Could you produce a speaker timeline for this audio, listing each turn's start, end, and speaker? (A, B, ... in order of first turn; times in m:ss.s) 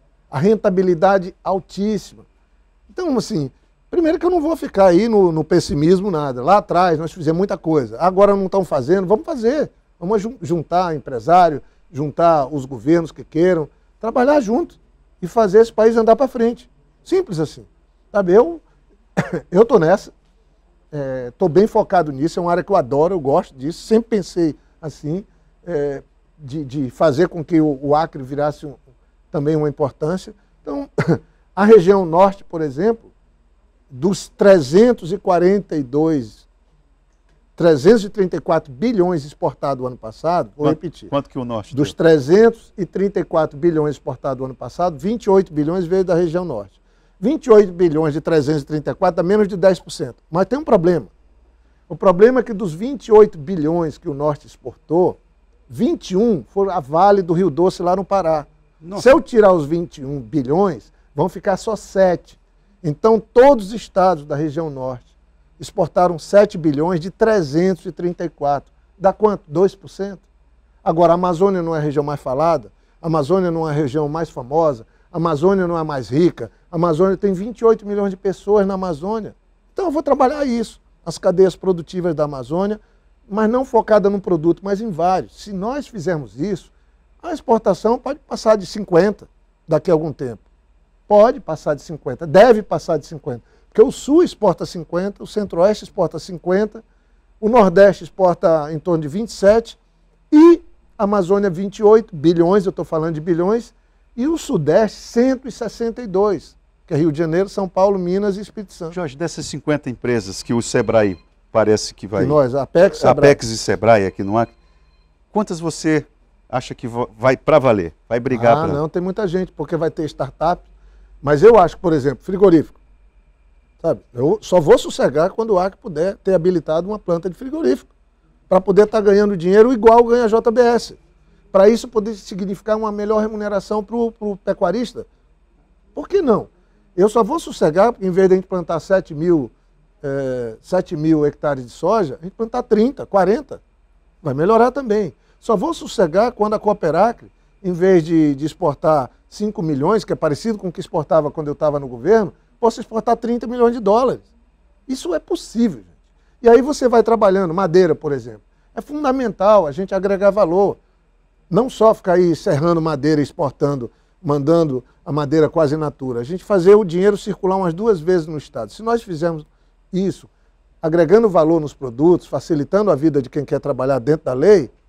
0:00.3-0:02.2 A
0:02.9-0:18.6 A
0:19.2-0:20.1 A
0:20.9-0:28.8 A
0:29.3-0:33.1 A
0:33.9-0:36.4 A
0:37.6-0:41.1 A
0:40.6-0:41.9 B
0:41.7-0:51.1 A
0:51.9-0:55.2 A
0:55.7-1:10.2 A
0:58.8-0:59.1 B
1:10.8-1:30.4 A
1:31.1-1:36.8 A
1:37.4-1:39.8 A
1:40.3-1:49.0 A
1:48.9-1:52.4 B
1:52.2-1:53.4 A
1:52.9-1:54.5 B
1:55.3-1:58.8 B
1:58.3-2:00.6 A
2:01.2-2:02.8 A
2:03.8-2:07.9 A
2:08.5-2:11.0 A
2:11.5-2:15.1 A
2:15.9-2:23.6 A
2:24.2-2:34.3 A
2:34.9-2:35.9 A
2:36.4-2:40.8 A
2:41.5-2:50.3 A
2:50.8-2:54.7 A